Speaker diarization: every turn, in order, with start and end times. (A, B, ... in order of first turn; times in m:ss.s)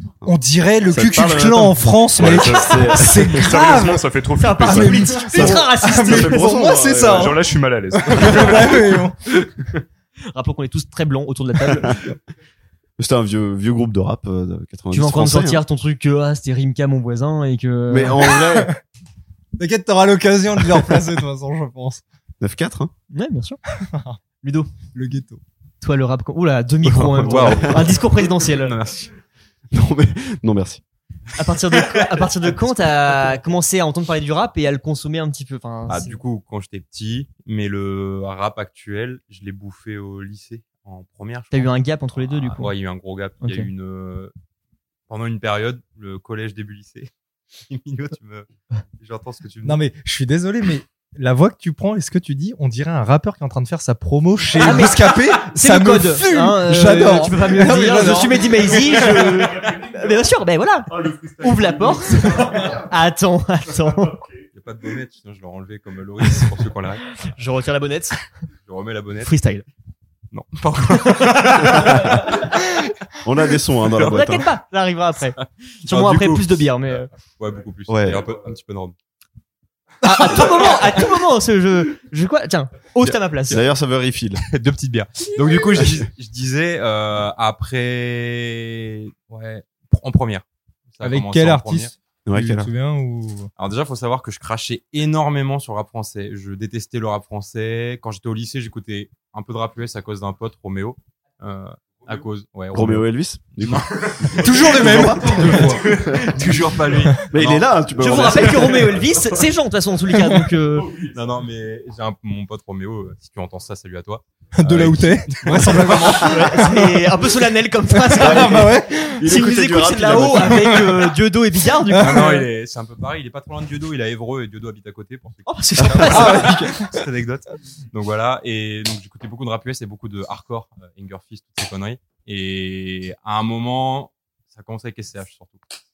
0:00.2-0:03.2 A
0:00.2-0:04.0 B
0:02.2-0:05.3 C
0:03.3-0:03.9 D
0:04.4-0:06.7 D
0:04.6-0:07.4 B
0:05.3-0:07.4 A
0:07.0-0:09.0 C
0:08.0-0:09.2 B
0:10.3-0:11.9 D
0:13.0-0:15.6 A
0:14.9-0:18.2 D
0:17.9-0:18.7 A
0:18.3-0:18.7 B
0:19.6-0:22.0 B
0:22.4-0:22.9 A
0:23.1-0:23.6 D
0:23.8-0:24.2 B
0:24.4-0:24.7 D
0:24.9-0:25.4 B
0:25.8-0:28.8 D
0:26.8-0:28.0 A
0:27.1-0:29.1 E
0:29.7-0:30.8 A
0:31.4-0:36.2 D
0:35.9-0:44.3 E
0:41.5-0:42.7 D
0:43.4-0:43.7 D
0:45.1-0:47.1 E
0:47.7-0:49.8 E
0:49.6-0:59.0 B
0:54.6-1:04.2 D
1:00.9-1:01.9 C
1:04.5-1:07.0 E
1:07.3-1:08.2 D
1:08.6-1:09.3 E
1:09.2-1:09.7 D
1:10.3-1:12.4 E
1:11.0-1:11.9 D
1:11.8-1:12.2 A
1:13.2-1:14.5 A
1:14.0-1:17.1 D
1:15.8-1:19.0 E
1:17.9-1:18.3 A
1:20.0-1:23.6 D
1:20.1-1:20.8 B
1:23.5-1:24.4 A
1:24.4-1:31.9 E
1:25.8-1:26.0 A
1:31.0-1:33.5 B
1:32.2-1:32.7 A
1:33.6-1:43.1 E
1:42.7-1:46.5 A
1:43.6-1:48.5 E
1:44.4-1:45.9 B
1:47.2-1:49.0 A
1:48.0-1:51.0 D
1:50.1-1:50.4 B
1:50.9-1:56.4 E
1:54.6-1:57.0 B
1:55.9-2:02.4 D
1:57.9-1:59.3 B
1:58.2-2:00.9 A
2:00.4-2:00.9 B
2:01.9-2:02.5 B
2:02.0-2:15.6 E
2:05.4-2:06.6 D
2:06.0-2:06.9 B